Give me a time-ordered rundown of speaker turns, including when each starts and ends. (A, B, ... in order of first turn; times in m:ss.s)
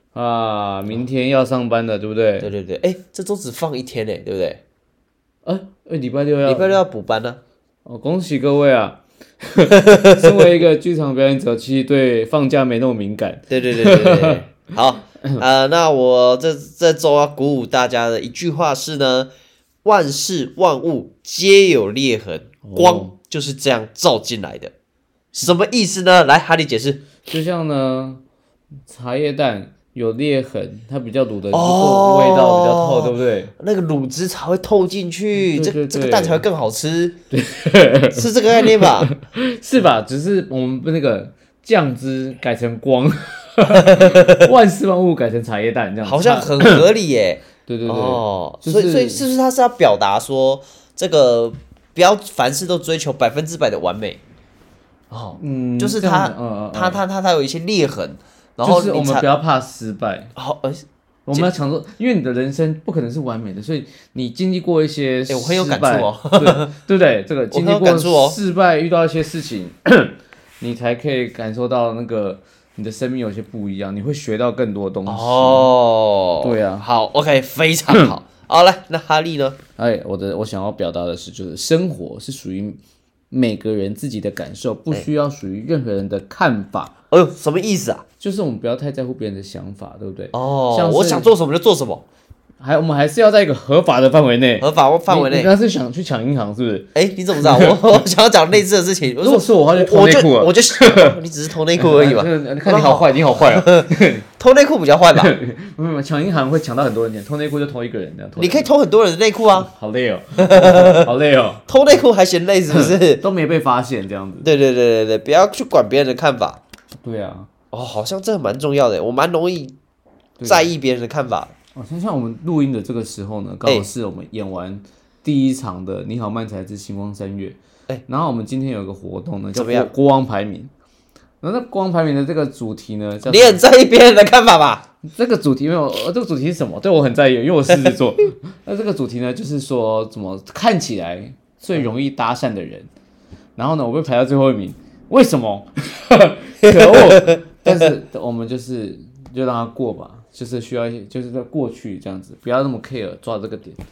0:00.1-0:02.5 A
0:02.4-0:04.6 B
0:05.4-0:06.8 A
0:06.4-0:07.4 B
0:07.8-0:14.6 A
0:09.9-0:10.3 B
0:13.5-0:19.3 B
0:19.8-0:24.7 B
0:22.6-0:23.1 A
0:25.3-0:27.2 B
0:27.2-0:28.2 A
0:28.9-0:33.5 A
0:31.5-0:37.2 B
0:35.4-0:36.4 A
0:37.3-0:46.8 A
0:38.1-0:39.1 B
0:43.7-0:44.4 B
0:46.0-0:54.2 B
0:47.7-0:49.3 A
0:55.1-0:59.3 B
0:55.4-0:57.0 A
0:58.6-1:00.3 A
1:00.4-1:01.5 B
1:01.3-1:15.7 A
1:05.3-1:06.7 B
1:07.5-1:08.4 B
1:15.1-1:19.6 B
1:16.4-1:16.8 A
1:17.9-1:18.2 A
1:19.8-1:22.8 A
1:23.3-1:27.0 A
1:27.1-1:28.0 B
1:28.2-1:31.3 A
1:30.3-1:32.0 B
1:32.6-1:36.9 A
1:34.6-1:35.5 B
1:37.0-1:45.3 B
1:37.4-1:37.8 A
1:39.2-1:41.2 A
1:41.8-1:44.2 A
1:45.2-1:48.7 A
1:48.4-1:49.7 B
1:49.6-1:52.0 A
1:50.4-1:51.1 B
1:51.7-1:53.2 B
1:52.7-1:54.5 A
1:54.4-1:56.6 B
1:57.0-1:57.5 A
1:57.7-1:59.8 B
2:00.4-2:00.7 A
2:00.4-2:01.5 B
2:01.8-2:10.7 A
2:09.5-2:09.9 B
2:11.4-2:13.6 A
2:13.3-2:14.8 B
2:15.1-2:22.9 A
2:23.6-2:33.8 A
2:26.6-2:27.4 B